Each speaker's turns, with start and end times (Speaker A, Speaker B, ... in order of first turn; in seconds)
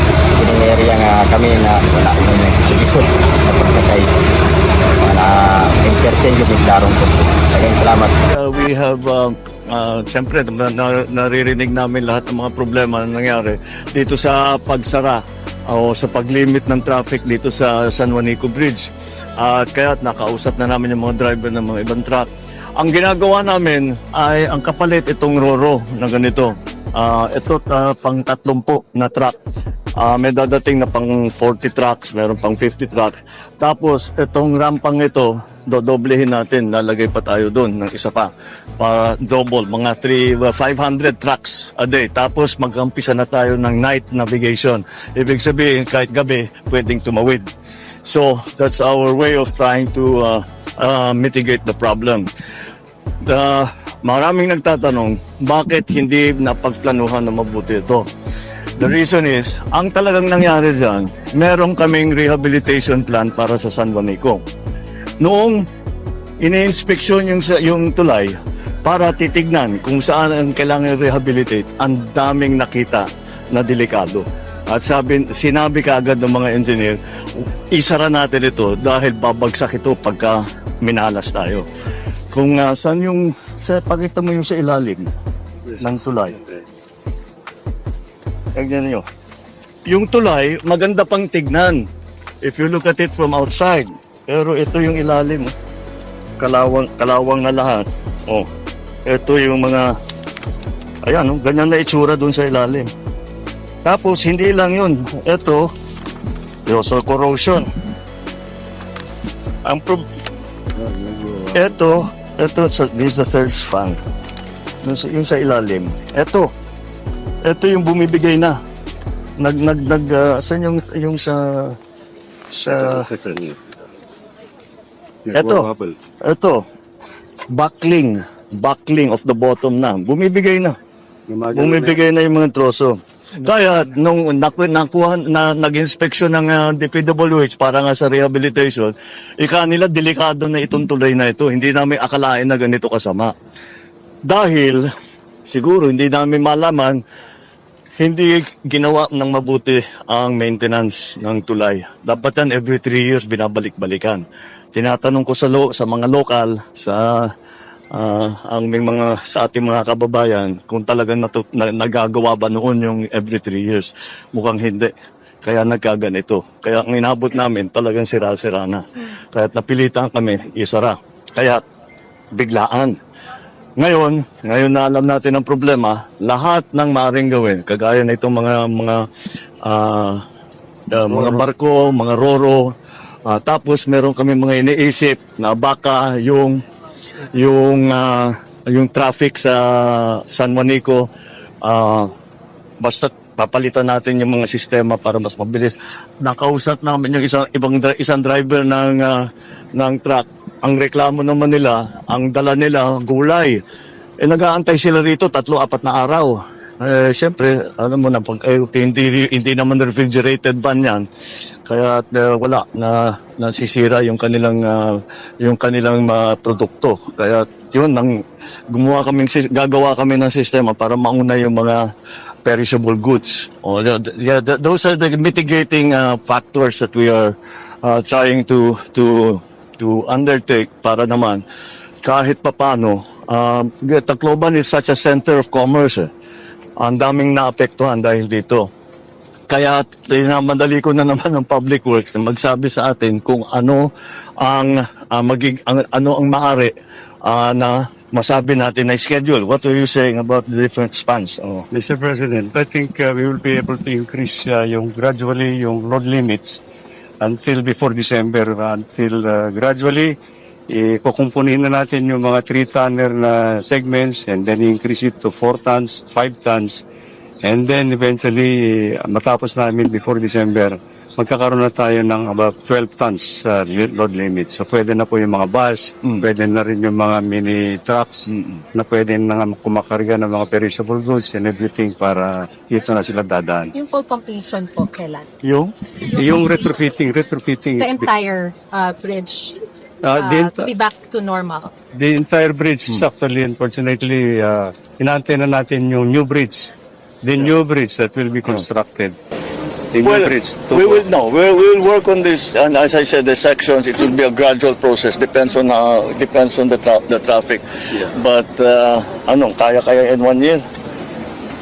Speaker A: 0.3-4.2, 5.0-8.2
Speaker B: 8.2-29.4, 30.0-47.5, 48.0-52.3, 53.2-58.1, 58.8-64.4, 65.2-65.6, 66.4-81.7, 82.3-85.1, 85.8-86.4, 88.6-89.0, 89.9-91.8, 92.4-95.5, 96.4-98.5, 99.1-99.9, 101.1-102.9, 103.8-105.7, 106.7-107.7, 109.7-110.0, 111.5-114.0, 114.8-116.5, 117.4-118.6, 119.4-121.8, 122.5-123.1, 125.3-125.7, 126.2-126.6, 127.5-130.7, 131.5-143.3, 144.3-144.8, 145.5-147.0, 148.0-154.2, 154.8-157.2, 157.9-164.9, 165.4-171.6, 172.3-172.9, 173.8-179.0, 179.7-180.2, 180.9-182.6, 183.3-186.6, 187.3-191.1, 191.6-192.1, 192.8-199.2, 199.8-203.6, 204.2-211.0, 211.7-218.1, 218.7-221.8, 222.4-231.4, 232.0-236.1, 236.8-238.6, 239.5-243.9, 244.4-246.7, 247.2-251.7, 278.3-278.6, 285.4-285.7, 300.0-310.6
Speaker C: 85.7-86.6, 122.8-123.7, 125.3-126.0, 131.3-132.0, 251.7-256.6, 257.2-260.2, 260.7-266.8, 267.4-283.7, 286.1-288.1, 290.0-290.7, 291.9-299.2, 299.9-301.1
Speaker D: 283.7-285.3, 287.8-289.6, 290.1-291.7